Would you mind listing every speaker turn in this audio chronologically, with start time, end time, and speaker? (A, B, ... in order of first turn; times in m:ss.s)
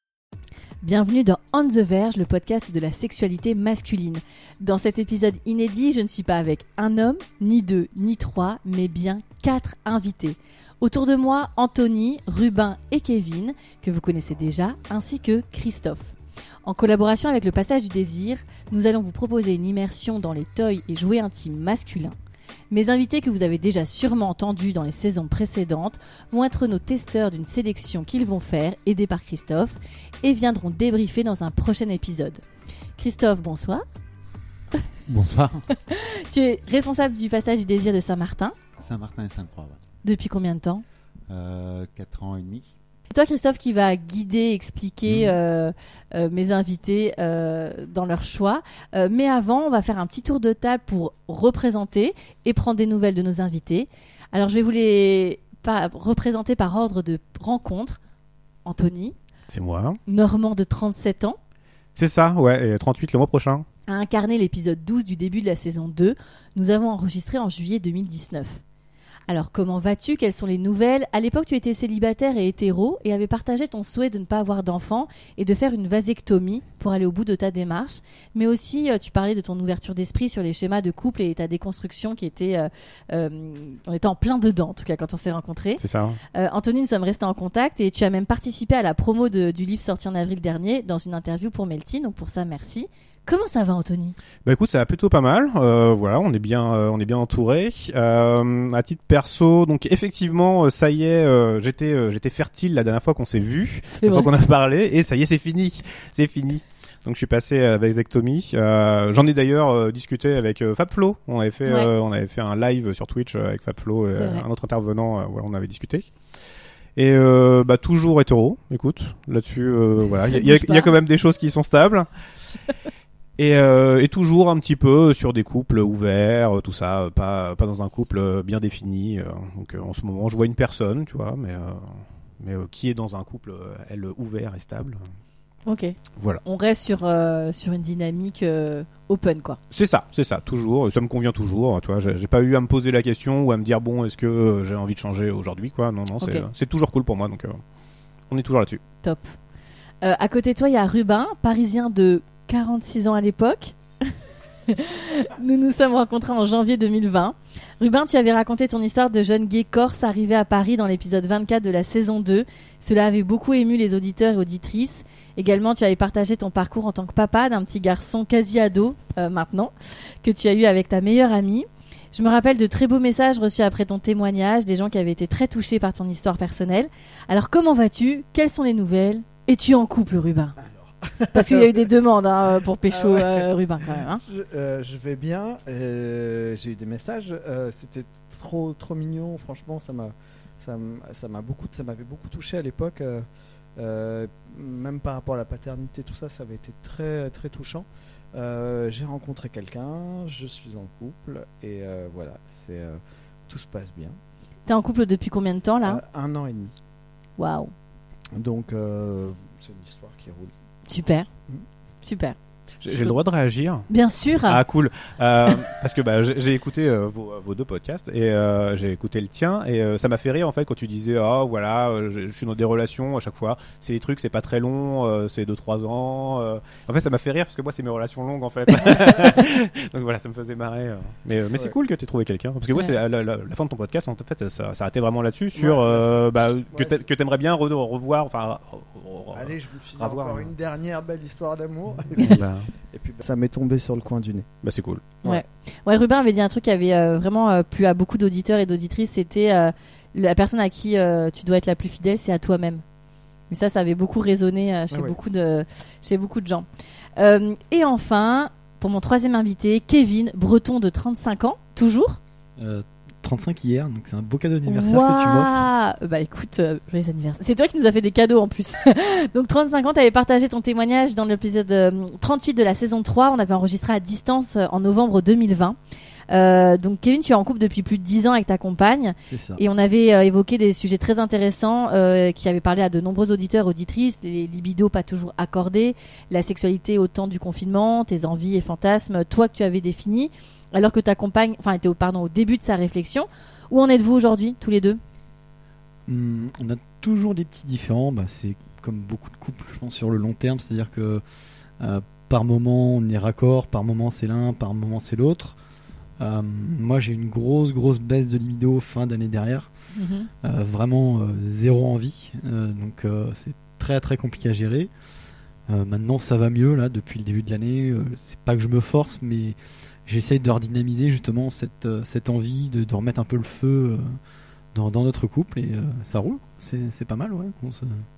0:00.8-0:16.1 A
0:16.6-0:22.2 A
0:22.7-0:32.4 A
0:33.0-0:33.8 A
0:35.1-0:35.6 B
0:35.7-0:38.6 A
0:38.8-0:39.8 B
0:40.0-0:40.8 A
0:41.3-0:42.7 B
0:43.1-0:58.0 A
0:45.1-0:45.3 B
0:58.6-0:59.1 A
0:59.5-1:00.0 C
1:00.0-1:01.4 A
1:02.0-1:03.6 C
1:03.9-1:08.6 A
1:09.3-1:25.8 A
1:25.8-1:26.2 C
1:26.3-1:34.2 A
1:34.4-1:56.1 C
1:44.0-1:44.3 A
1:54.1-1:54.4 A
1:57.0-2:02.1 C
2:00.2-2:01.0 A
2:03.4-2:15.0 C
2:15.6-2:19.6 A
2:16.2-2:16.4 C
2:19.7-2:27.6 C
2:26.2-2:26.5 A
2:28.3-2:28.8 C
2:29.0-2:29.3 A
2:30.0-2:34.1 A
2:34.7-3:00.6 A
3:00.9-3:01.7 D
3:01.3-3:04.2 A
3:02.9-3:24.2 D
3:24.7-3:26.0 A
3:25.8-3:26.7 D
3:27.4-3:27.7 A
3:28.3-3:30.5 D
3:30.9-3:31.3 A
3:32.0-3:32.4 A
3:32.8-3:33.9 C
3:32.9-3:33.2 A
3:33.9-3:34.6 A
3:34.4-4:00.5 C
3:55.5-3:57.0 D
3:59.3-4:04.5 D
4:02.2-4:02.7 C
4:04.6-4:05.2 C
4:05.2-4:12.8 A
4:13.5-4:16.6 A
4:14.9-4:15.2 D
4:17.2-4:22.2 A
4:22.6-4:25.5 E
4:24.6-4:35.8 A
4:36.3-4:55.0 A
4:39.3-4:39.6 E
4:56.1-5:01.2 E
5:01.8-5:05.6 E
5:06.2-5:09.7 E
5:09.9-5:10.3 A
5:10.4-5:14.9 E
5:15.7-5:24.2 E
5:24.7-5:28.0 E